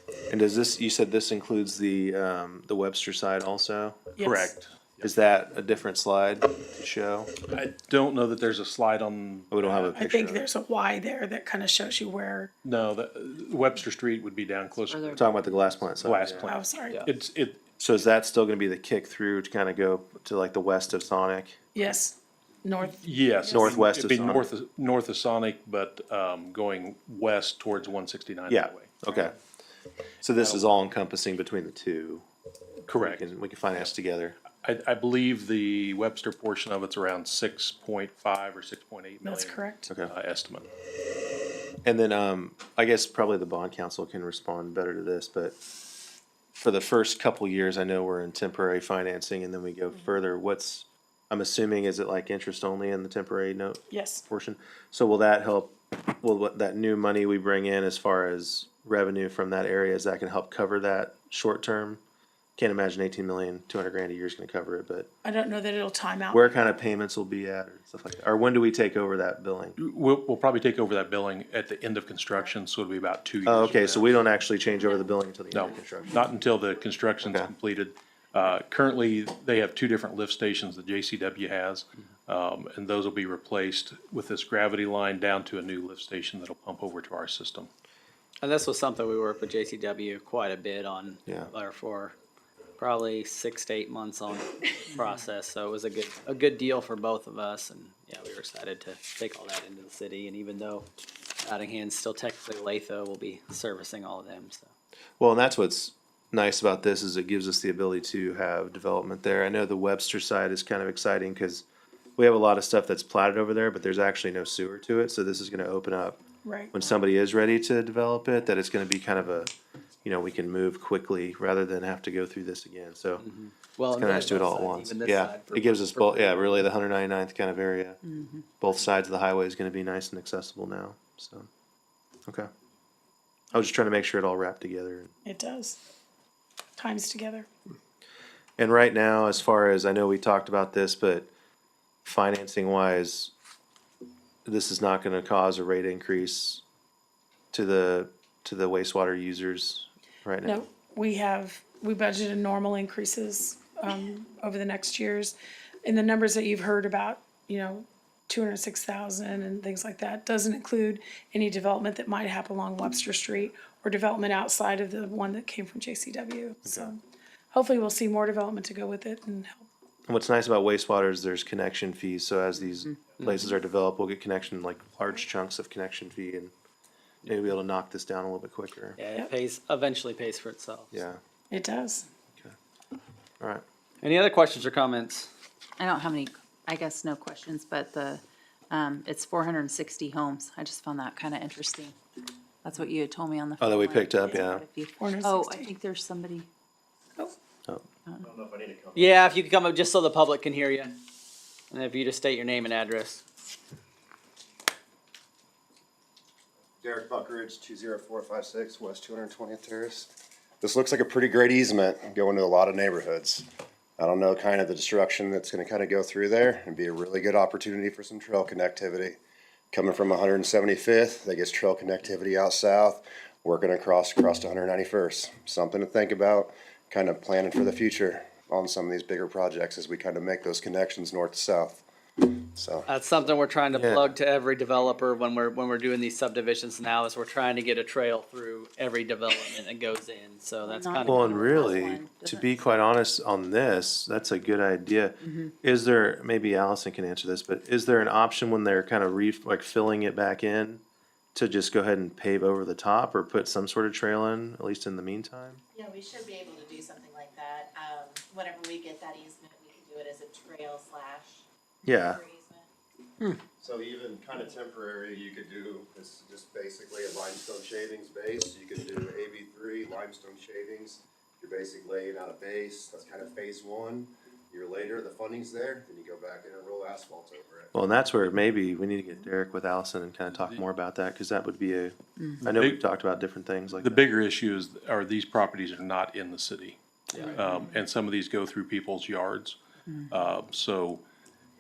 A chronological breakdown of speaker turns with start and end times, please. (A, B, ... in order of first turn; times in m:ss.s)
0:00.3-0:04.1 A
0:04.2-0:04.5 B
0:04.2-0:05.1 C
0:05.0-0:07.3 A
0:07.5-0:10.0 C
0:09.5-0:10.4 A
0:09.9-0:12.5 B
0:12.6-0:15.3 C
0:14.9-0:15.2 D
0:15.1-0:16.5 A
0:16.0-0:17.6 C
0:16.4-0:17.1 B
0:17.8-0:21.6 A
0:21.7-0:23.0 B
0:22.9-0:29.1 C
0:23.5-0:24.5 A
0:28.5-0:29.3 A
0:30.2-0:32.2 A
0:30.3-0:30.6 C
0:32.9-0:33.3 C
0:32.9-0:34.4 A
0:34.5-0:40.7 C
0:39.2-0:39.9 B
0:41.8-0:45.6 A
0:46.6-1:02.0 A
0:53.9-0:54.2 B
1:02.6-1:05.1 A
1:05.2-1:06.6 B
1:06.3-1:09.8 A
1:09.8-1:14.2 C
1:13.4-1:16.2 A
1:15.5-1:27.7 C
1:17.2-1:17.5 A
1:28.4-1:32.1 E
1:31.3-1:31.5 A
1:32.8-1:40.9 E
1:41.4-1:44.7 E
1:45.2-1:51.6 A
1:52.2-1:56.2 A
1:56.4-1:56.8 B
1:56.7-1:59.5 A
2:00.0-2:03.2 A
2:03.2-2:06.4 E
2:03.9-2:08.0 A
2:08.0-2:08.4 D
2:08.6-2:11.5 A
2:13.5-2:15.1 A
2:15.2-2:15.8 B
2:16.8-2:17.5 B
2:18.6-2:21.3 A
2:22.0-2:23.3 A
2:24.4-2:26.6 A
2:27.5-2:30.6 A
2:30.4-2:47.0 B
2:46.6-2:46.9 A
2:47.5-2:49.7 B
2:50.1-2:56.5 A
2:53.2-2:53.4 E
2:57.2-2:59.0 A
2:59.0-3:00.9 E
3:00.9-3:01.2 A
3:01.5-3:02.1 B
3:04.0-3:05.3 E
3:05.8-3:12.0 D
3:12.6-3:16.5 D
3:13.6-3:14.6 A
3:15.0-3:15.7 B
3:18.2-3:19.2 F
3:18.9-3:21.0 E
3:21.7-3:23.2 E
3:26.8-3:30.1 F
3:30.6-3:33.5 F
3:34.0-3:39.2 F
3:39.7-3:52.9 F
3:52.9-4:01.6 E
3:53.7-3:54.1 A
4:00.6-4:02.6 D
4:01.0-4:10.8 A
4:05.2-4:05.5 D
4:11.3-4:15.6 A
4:15.7-4:22.7 G
4:21.8-4:22.2 A
4:23.6-4:37.7 F
4:37.7-4:44.0 A
4:42.4-4:42.8 C
4:43.8-4:49.6 C
4:47.1-4:47.4 E
4:47.2-4:47.8 D
4:49.9-4:50.2 D
4:50.1-4:51.0 C